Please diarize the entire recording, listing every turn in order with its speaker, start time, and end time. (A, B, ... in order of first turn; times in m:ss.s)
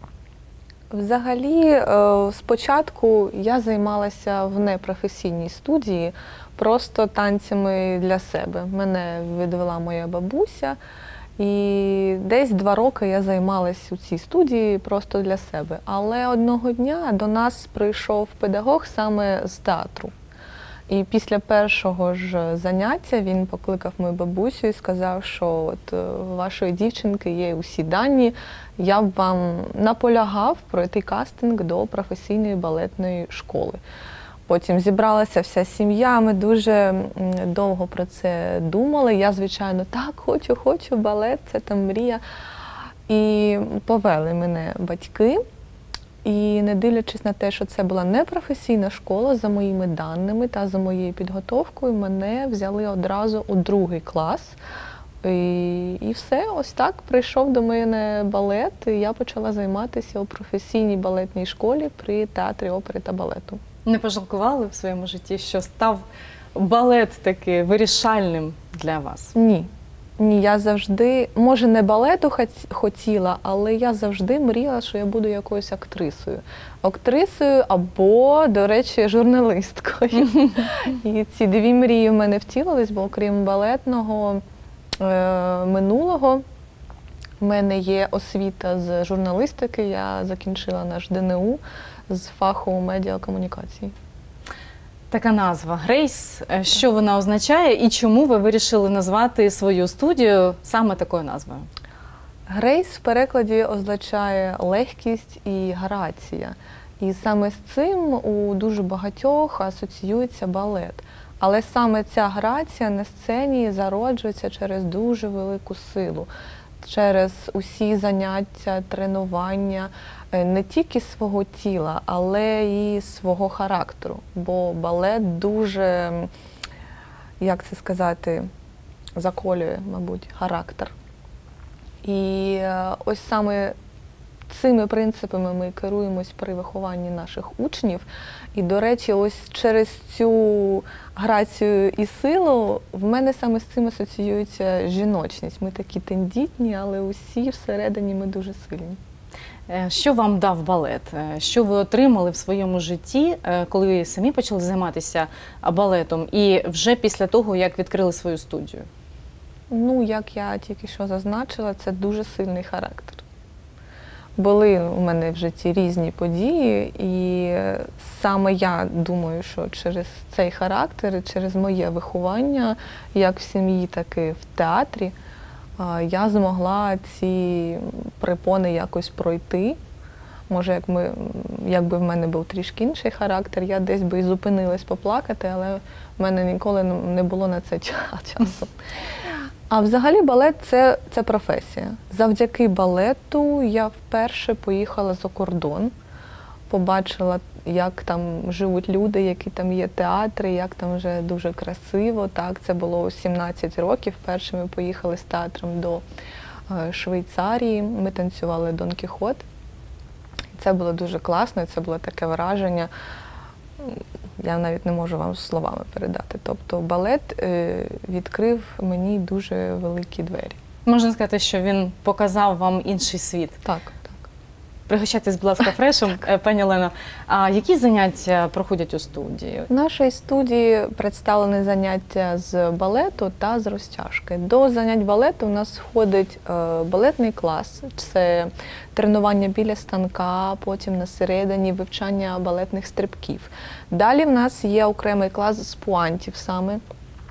0:00.9-0:10.8 A
0:11.4-0:20.1 A
0:20.9-0:33.8 A
0:34.5-0:42.2 A
0:43.1-0:45.4 A
0:46.2-0:54.6 A
0:55.2-1:03.6 A
1:03.8-1:06.0 B
1:06.6-1:09.3 B
1:09.4-1:24.4 A
1:25.0-1:26.4 A
1:27.4-1:33.9 A
1:35.1-1:41.7 B
1:42.5-1:56.3 A
1:56.8-2:06.3 A
2:07.4-2:08.5 A
2:09.2-2:10.9 A
2:12.0-2:13.8 A
2:14.5-2:29.0 A
2:29.7-2:38.9 B
2:39.7-2:43.2 A
2:44.4-2:55.1 A
2:55.8-2:59.8 A
3:00.5-3:08.7 A
3:09.7-3:15.9 A
3:16.7-3:26.0 A
3:26.7-3:29.4 A
3:30.5-3:32.9 A
3:33.8-3:40.6 A
3:40.9-3:43.6 B
3:43.6-3:44.3 A
3:44.9-3:49.7 B
3:49.7-4:06.8 A